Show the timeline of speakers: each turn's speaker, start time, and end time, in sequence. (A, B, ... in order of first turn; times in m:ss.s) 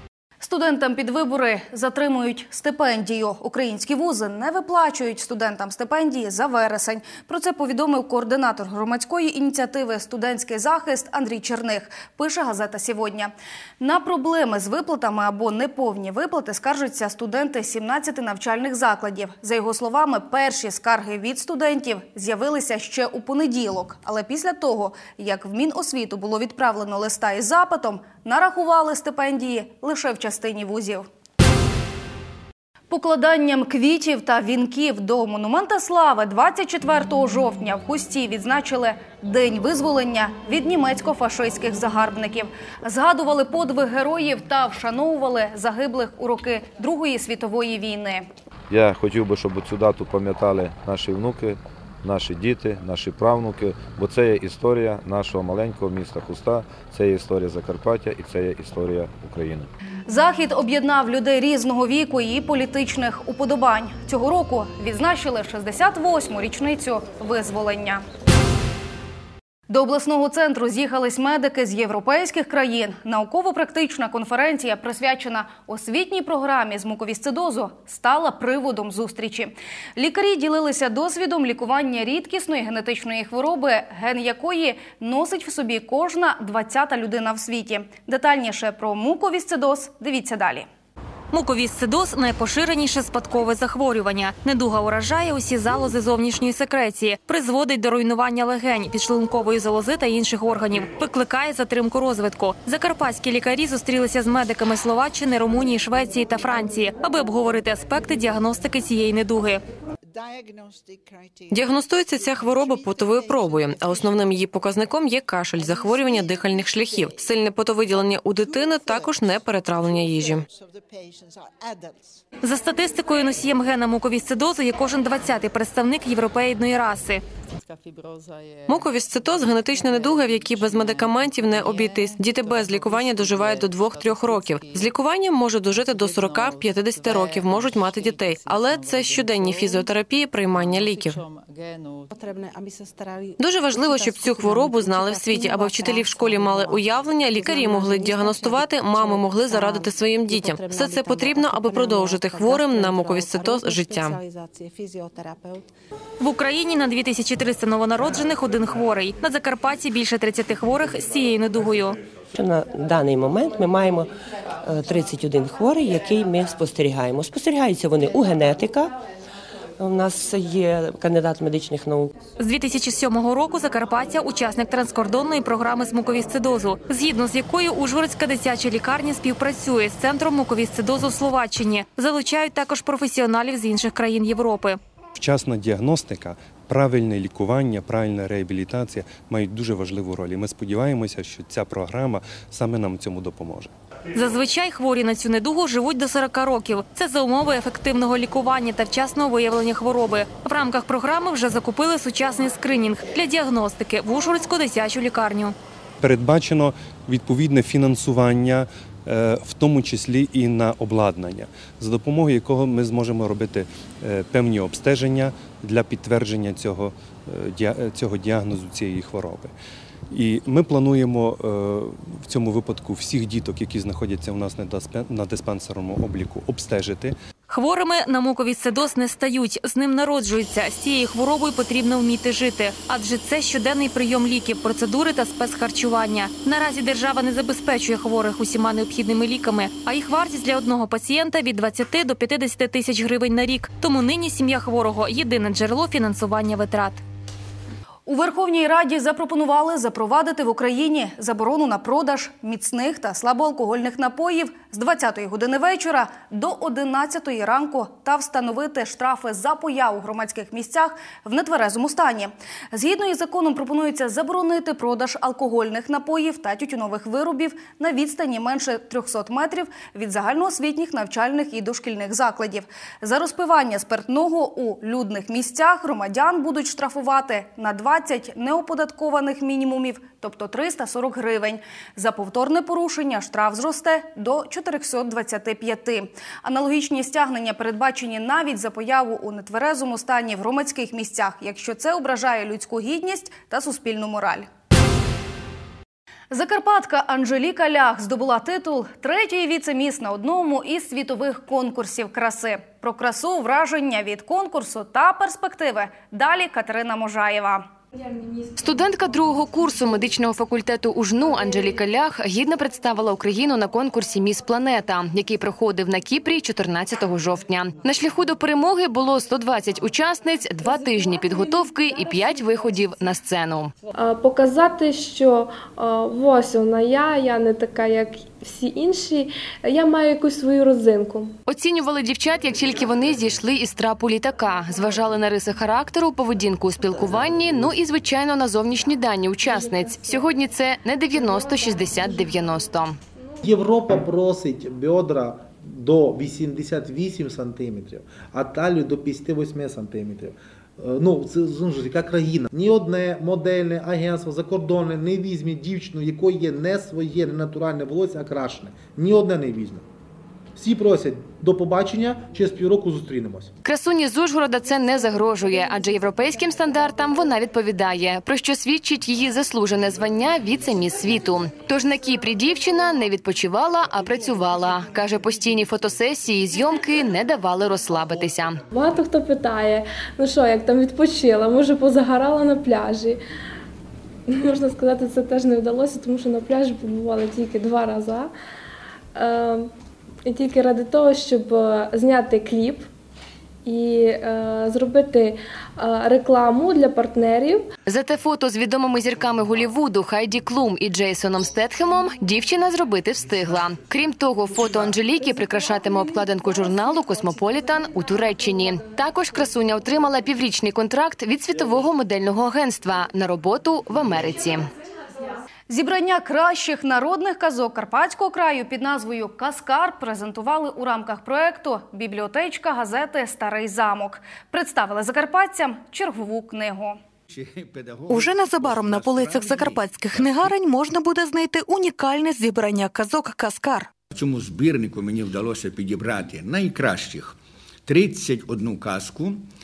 0:00.4-0:31.1 A
0:32.9-0:48.3 A
0:48.7-0:59.7 B
1:00.1-1:08.0 A
1:09.7-1:30.7 A
1:31.3-1:49.6 C
1:51.5-2:00.4 D
2:02.4-2:07.2 C
2:08.7-2:21.2 D
2:23.4-2:34.2 D
2:36.2-2:42.0 C
2:42.3-2:44.1 E
2:44.6-2:49.0 E
2:49.8-2:52.2 E
2:52.4-3:04.8 C
3:05.2-3:13.7 F
3:14.1-3:25.6 C
3:26.0-3:39.5 F
3:40.2-3:47.1 F
3:47.5-4:07.0 C
4:08.1-4:54.5 A
4:56.3-5:07.7 A
5:08.1-5:08.4 G
5:08.6-5:23.7 H
5:23.9-5:31.3 G
5:31.5-5:43.0 H
5:39.5-5:40.2 G
5:41.4-5:42.1 G
5:43.4-5:59.8 I
6:00.6-6:03.5 I
6:03.6-6:18.6 H
6:18.7-6:23.2 G
6:24.3-6:28.3 G
6:29.2-6:29.7 G
6:30.2-6:32.9 G
6:33.6-6:37.7 G
6:37.9-6:54.7 H
6:55.7-7:07.0 A
7:07.3-7:10.5 J
7:08.1-7:13.9 K
7:14.1-7:19.5 J